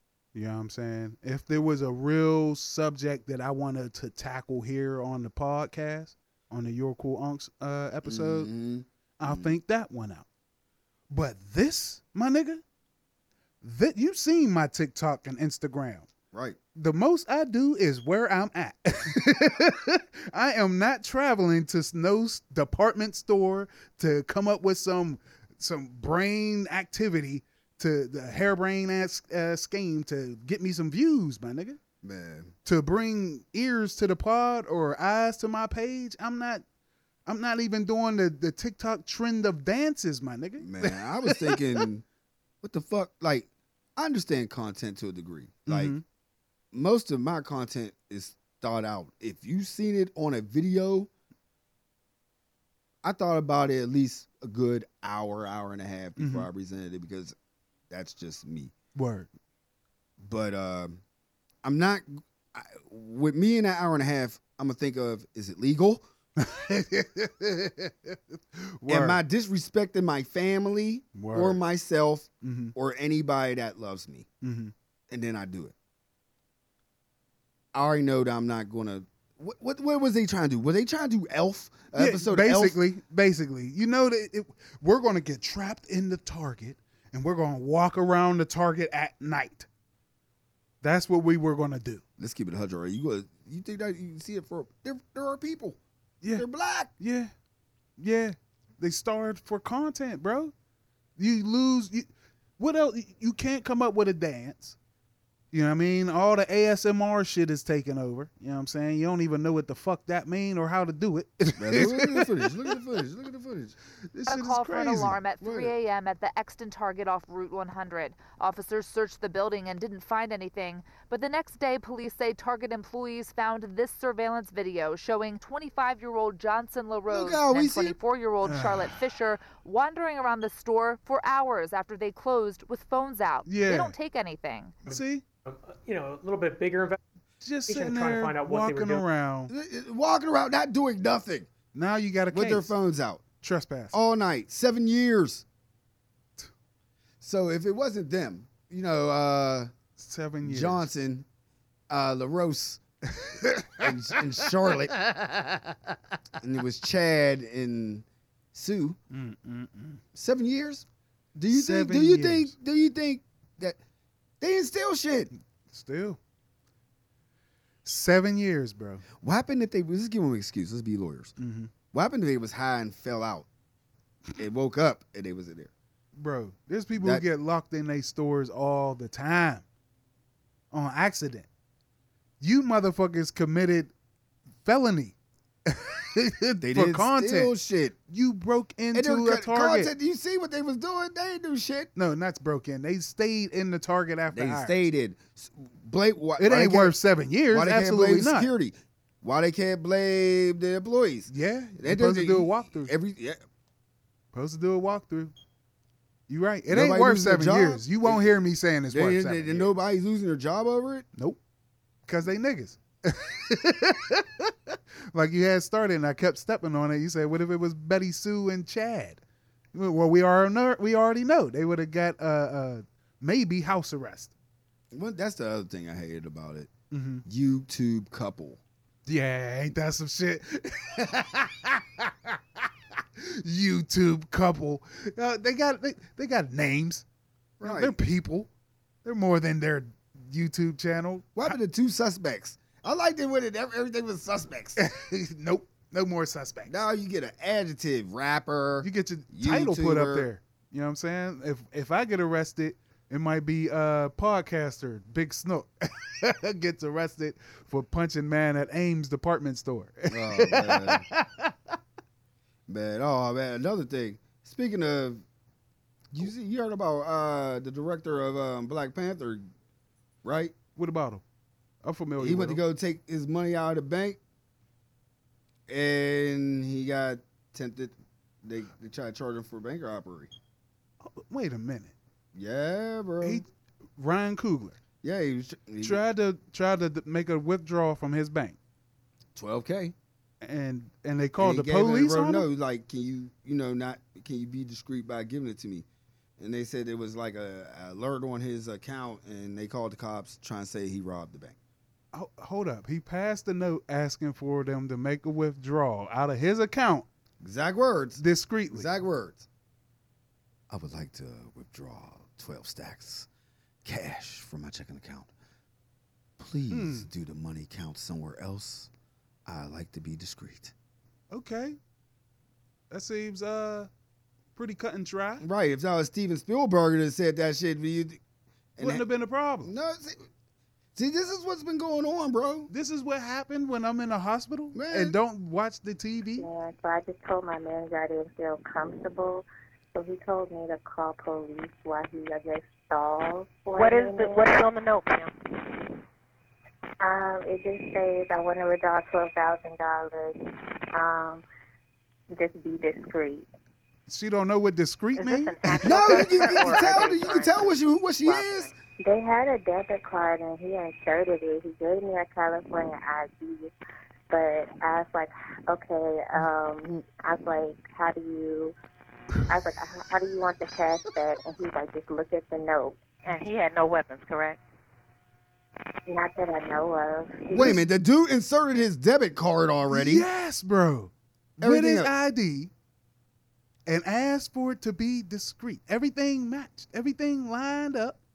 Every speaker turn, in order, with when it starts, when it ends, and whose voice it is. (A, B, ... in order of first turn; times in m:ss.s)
0:00.3-0:08.5 A
0:08.0-0:09.6 B
0:09.2-0:10.3 A
0:11.1-0:12.6 A
0:13.6-0:16.1 A
0:16.3-0:16.6 B
0:16.8-0:31.8 A
0:32.0-0:32.5 B
0:32.6-0:36.6 A
0:37.3-0:41.8 A
0:40.6-0:42.0 B
0:42.6-0:46.0 B
0:45.7-0:46.0 A
0:46.7-0:51.1 B
0:53.0-0:57.4 B
0:56.2-0:56.5 A
0:57.9-0:58.7 B
0:58.9-0:59.3 A
1:00.2-1:01.0 B
1:01.6-1:06.0 B
1:06.4-1:09.2 A
1:08.9-1:14.3 B
1:11.1-1:11.6 A
1:12.4-1:12.7 A
1:14.4-1:14.7 A
1:15.1-1:15.7 B
1:17.7-1:22.8 B
1:21.9-1:29.7 A
1:30.8-1:32.0 A
1:32.2-1:35.8 B
1:36.2-1:36.5 A
1:36.4-1:36.9 B
1:37.0-1:37.3 A
1:38.0-1:40.5 A
1:41.2-1:44.8 A
1:45.5-1:52.5 A
1:51.6-1:53.8 B
1:54.1-1:55.2 A
1:54.3-2:14.8 C
1:55.4-1:55.8 B
2:07.1-2:08.0 B
2:08.4-2:09.0 A
2:13.4-2:13.9 A
2:14.9-2:15.2 A
2:14.9-2:17.0 D
2:17.4-2:19.5 A
2:17.7-2:19.0 D
2:19.5-2:21.5 B
2:21.7-2:22.8 A
2:22.3-2:23.2 B
2:23.4-2:24.0 A
2:23.9-2:25.4 B
2:27.2-2:29.7 B
2:30.0-2:30.9 A
2:30.4-2:31.3 B
2:31.9-2:32.8 B
2:33.1-2:35.8 A
2:33.8-2:35.0 B
2:36.4-2:39.0 B
2:39.1-2:40.0 A
2:40.1-2:43.8 B
2:41.5-2:42.5 A
2:44.4-2:45.3 B
2:45.7-2:46.2 A
2:47.8-2:49.0 A
2:49.2-2:51.3 B
2:51.4-2:51.7 A
2:51.9-2:53.5 B
2:54.4-2:55.7 B
2:56.2-2:59.6 A
2:56.9-2:57.2 B
3:00.7-3:01.5 A
3:02.4-3:03.9 A
3:04.6-3:05.1 A
3:05.7-3:07.5 A
3:06.6-3:08.0 B
3:08.1-3:09.9 A
3:08.9-3:11.9 B
3:12.0-3:14.8 A
3:14.3-3:17.0 B
3:16.4-3:18.5 A
3:17.5-3:23.4 B
3:21.3-3:22.9 A
3:24.3-3:25.3 A
3:26.3-3:29.7 A
3:26.7-3:28.2 B
3:28.9-3:31.1 B
3:32.1-3:39.2 A
3:39.7-3:44.3 A
3:44.9-3:46.7 B
3:46.9-3:47.2 A
3:47.2-3:48.6 B
3:49.1-3:57.0 A
3:57.6-3:58.0 B
3:57.6-3:58.5 A
3:59.0-4:01.6 A
4:01.4-4:04.8 B
4:04.8-4:06.8 A
4:06.6-4:10.3 B
4:08.8-4:21.5 A
4:20.1-4:21.1 B
4:22.7-4:25.2 B
4:26.1-4:29.4 B
4:30.2-4:30.6 B
4:30.8-4:31.2 A
4:31.8-4:32.6 A
4:32.2-4:34.2 B
4:35.7-4:40.3 B
4:41.0-4:41.9 A
4:42.3-4:43.4 B
4:43.2-4:44.8 A
4:45.0-4:46.0 B
4:45.8-4:48.6 A
4:49.4-4:49.9 B
4:50.4-4:52.5 A
4:51.4-4:55.9 B
4:56.4-5:01.6 B
5:02.1-5:07.1 A
5:07.4-5:09.4 B
5:08.2-5:08.9 A
5:10.7-5:13.3 B
5:13.8-5:15.3 B
5:16.4-5:18.9 B
5:16.7-5:17.1 A
5:19.4-5:20.7 B
5:21.3-5:21.8 A
5:22.9-5:23.9 A
5:24.6-5:25.4 A
5:25.4-5:28.2 B
5:28.8-5:29.0 B
5:28.8-5:29.7 A
5:29.6-5:30.2 B
5:31.0-5:32.7 B
5:32.7-5:36.4 A
5:34.7-5:35.2 B
5:36.4-5:44.6 E
5:43.8-5:45.3 F
5:47.0-5:50.4 E
5:50.9-5:51.4 E
5:52.3-5:53.5 E
5:54.1-5:56.0 A
5:55.3-5:57.3 F
5:55.4-6:03.7 E
5:55.8-5:58.7 B
6:04.3-6:08.8 E
6:09.5-6:13.0 E
6:13.2-6:14.6 F
6:16.1-6:17.8 E
6:17.5-6:20.3 B
6:19.9-6:22.7 A
6:21.6-6:22.1 B
6:23.9-6:28.2 A